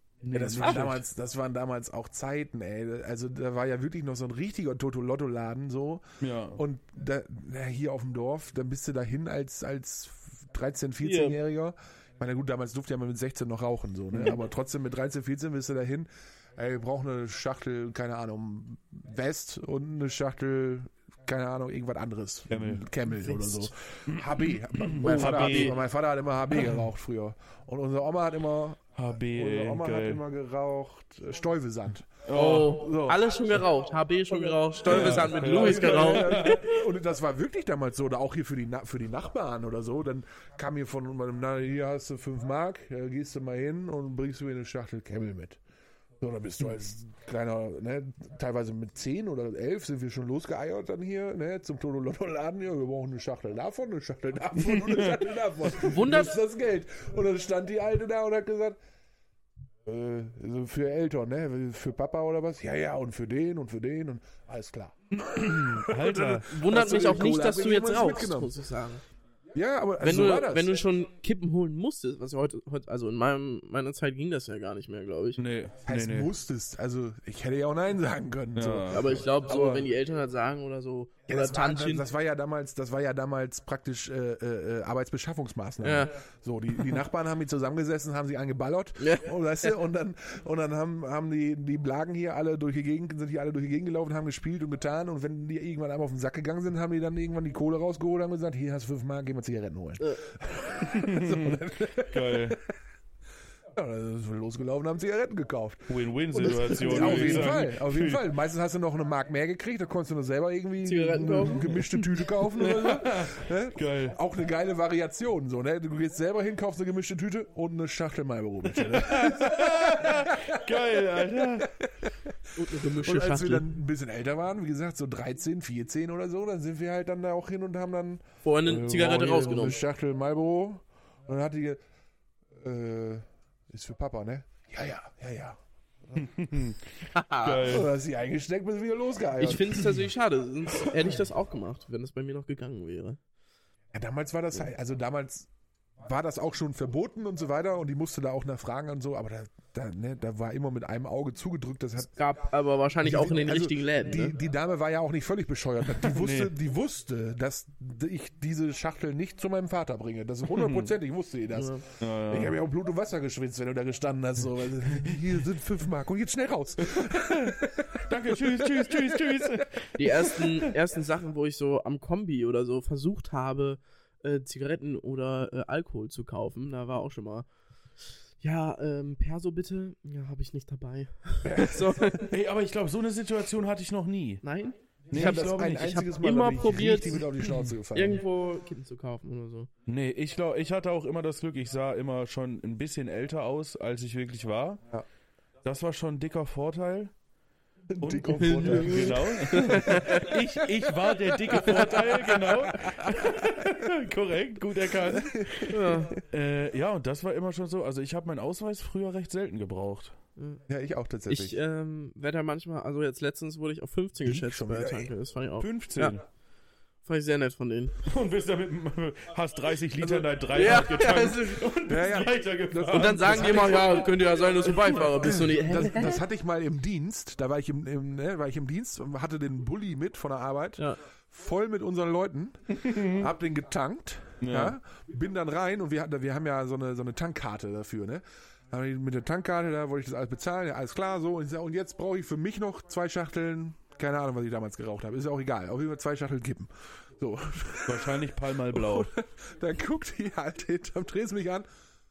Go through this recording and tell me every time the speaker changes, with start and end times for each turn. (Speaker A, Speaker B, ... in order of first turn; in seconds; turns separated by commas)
Speaker A: 0.2-1.0, Speaker B: 0.3-33.2, Speaker A: 6.2-6.6, Speaker C: 11.0-11.4, Speaker A: 14.1-14.4, Speaker A: 22.5-22.9, Speaker C: 23.2-23.7, Speaker A: 24.1-25.8, Speaker C: 25.0-25.8, Speaker A: 29.0-30.2, Speaker A: 32.3-33.2, Speaker C: 32.3-36.6, Speaker B: 34.8-45.6, Speaker A: 34.9-36.6, Speaker B: 46.2-58.8, Speaker A: 54.6-55.1, Speaker C: 55.8-56.4, Speaker B: 59.9-68.5, Speaker A: 65.1-66.5, Speaker C: 66.5-69.0, Speaker B: 69.5-70.7, Speaker C: 70.0-75.4, Speaker A: 75.4-76.3, Speaker B: 75.9-79.9, Speaker A: 78.5-79.2, Speaker C: 78.9-82.0, Speaker B: 81.3-102.6, Speaker C: 85.8-86.1, Speaker C: 89.0-89.7, Speaker A: 100.9-102.6, Speaker B: 103.8-121.0, Speaker A: 105.9-108.3, Speaker C: 106.6-107.5, Speaker C: 110.8-112.0, Speaker A: 112.2-114.2, Speaker A: 118.7-121.7, Speaker B: 121.7-122.3, Speaker C: 122.6-123.7, Speaker B: 122.9-131.8, Speaker C: 128.4-129.8, Speaker A: 128.9-129.3, Speaker B: 132.6-136.3, Speaker A: 136.2-137.9, Speaker C: 137.1-137.8, Speaker B: 137.6-140.0, Speaker C: 139.4-143.2, Speaker B: 143.9-145.5, Speaker B: 146.0-152.2, Speaker C: 152.1-154.3, Speaker B: 153.0-169.2, Speaker A: 156.0-156.6, Speaker A: 160.5-160.9, Speaker C: 161.6-161.8, Speaker A: 162.0-162.6, Speaker A: 167.0-170.8, Speaker C: 170.0-177.4, Speaker C: 178.4-182.3, Speaker B: 181.4-182.2, Speaker A: 182.3-184.4, Speaker C: 184.4-187.3, Speaker A: 185.1-185.8, Speaker B: 185.1-188.2, Speaker C: 187.9-189.7, Speaker A: 189.9-194.8, Speaker A: 195.6-197.1, Speaker B: 197.9-200.3, Speaker A: 198.0-210.2, Speaker C: 198.4-200.3, Speaker B: 201.1-203.2, Speaker C: 201.6-202.1, Speaker B: 205.1-206.2, Speaker C: 205.7-206.2, Speaker C: 210.4-210.6, Speaker B: 210.7-211.6, Speaker C: 211.3-216.2, Speaker B: 214.3-215.1, Speaker A: 215.6-216.2, Speaker C: 217.1-217.9, Speaker A: 218.0-225.4, Speaker B: 220.0-220.3, Speaker C: 220.5-221.7, Speaker B: 221.9-224.1, Speaker C: 222.9-226.2, Speaker B: 225.0-251.7, Speaker A: 232.7-233.3, Speaker A: 234.4-234.8, Speaker A: 247.9-249.1